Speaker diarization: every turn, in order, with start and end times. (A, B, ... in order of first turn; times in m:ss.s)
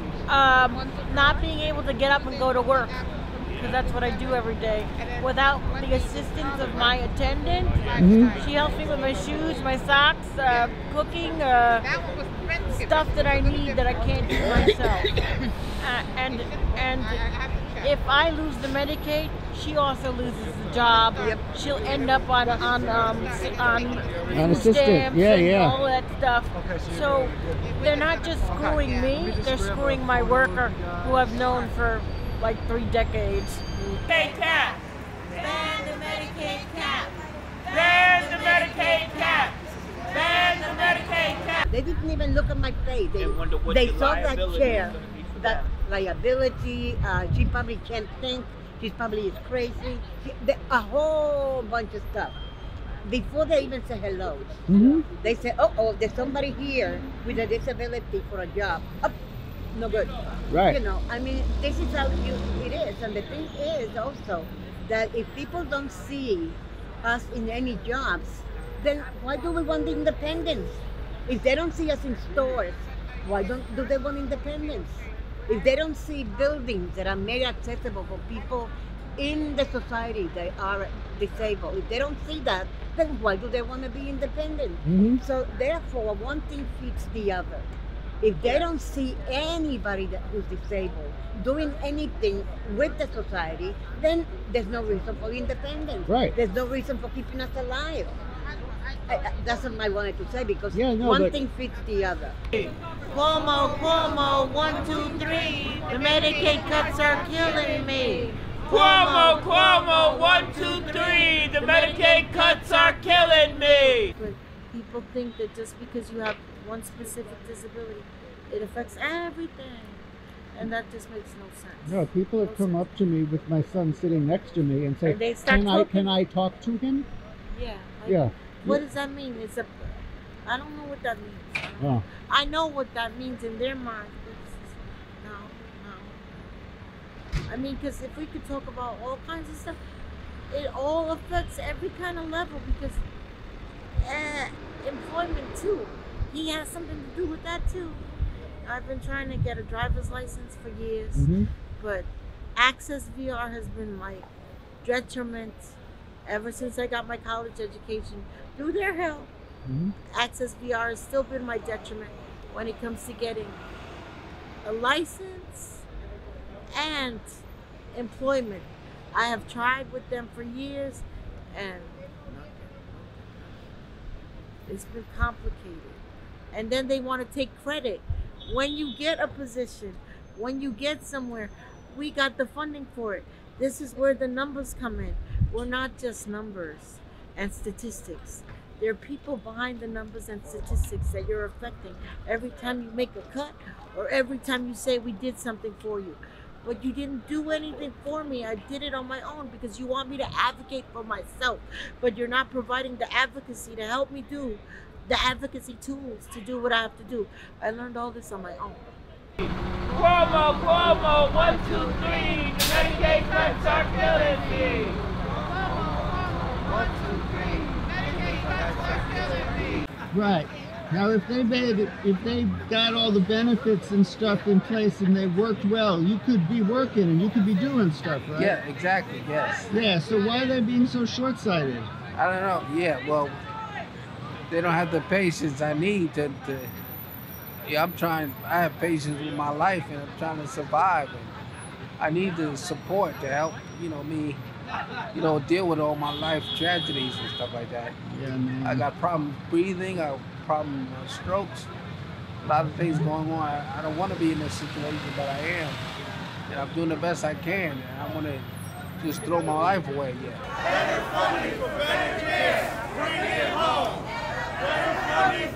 0:00.3-0:03.0 A
0:03.6-0:11.8 A
0:08.0-0:08.3 B
0:12.7-0:15.2 A
0:15.8-0:17.2 A
0:17.8-0:33.6 A
0:24.3-0:25.8 B
0:33.9-0:34.8 C
0:35.7-0:37.0 D
0:37.7-0:39.6 C
0:40.1-0:41.6 C
0:41.7-0:52.4 E
0:43.2-0:45.7 C
0:53.0-0:54.6 E
0:54.7-0:55.0 B
0:55.1-0:59.2 E
0:59.7-1:27.7 E
1:00.5-1:00.8 B
1:24.8-1:25.2 B
1:28.2-1:38.2 E
1:36.1-1:36.4 B
1:39.1-1:42.4 E
1:40.7-1:41.4 B
1:43.1-1:49.5 D
1:48.7-1:54.1 C
1:51.6-1:52.3 D
1:54.1-2:02.9 D
2:01.9-2:07.1 B
2:05.0-2:06.1 D
2:07.5-2:10.0 D
2:08.1-2:08.8 B
2:10.5-2:16.3 D
2:11.8-2:12.0 B
2:17.5-2:19.8 D
2:20.5-2:23.0 D
2:24.0-2:28.1 D
2:28.6-2:34.3 D
2:31.2-2:31.5 B
2:34.8-2:35.8 D
2:36.3-2:39.3 D
2:39.7-2:39.9 B
2:40.1-2:43.6 D
2:44.6-2:45.8 D
2:46.7-2:47.4 D
2:47.9-2:52.7 D
2:54.7-2:56.0 D
2:56.5-3:28.9 D
3:29.9-3:35.0 C
3:40.1-3:48.6 B
3:48.4-3:49.7 F
3:49.7-3:51.9 B
3:52.2-3:53.4 F
3:54.5-3:56.7 F
3:57.7-4:01.3 F
4:02.0-4:04.4 F
4:05.1-4:08.0 F
4:08.0-4:08.9 B
4:08.6-4:11.7 F
4:12.4-4:15.8 F
4:12.8-4:13.1 B
4:16.5-4:20.4 F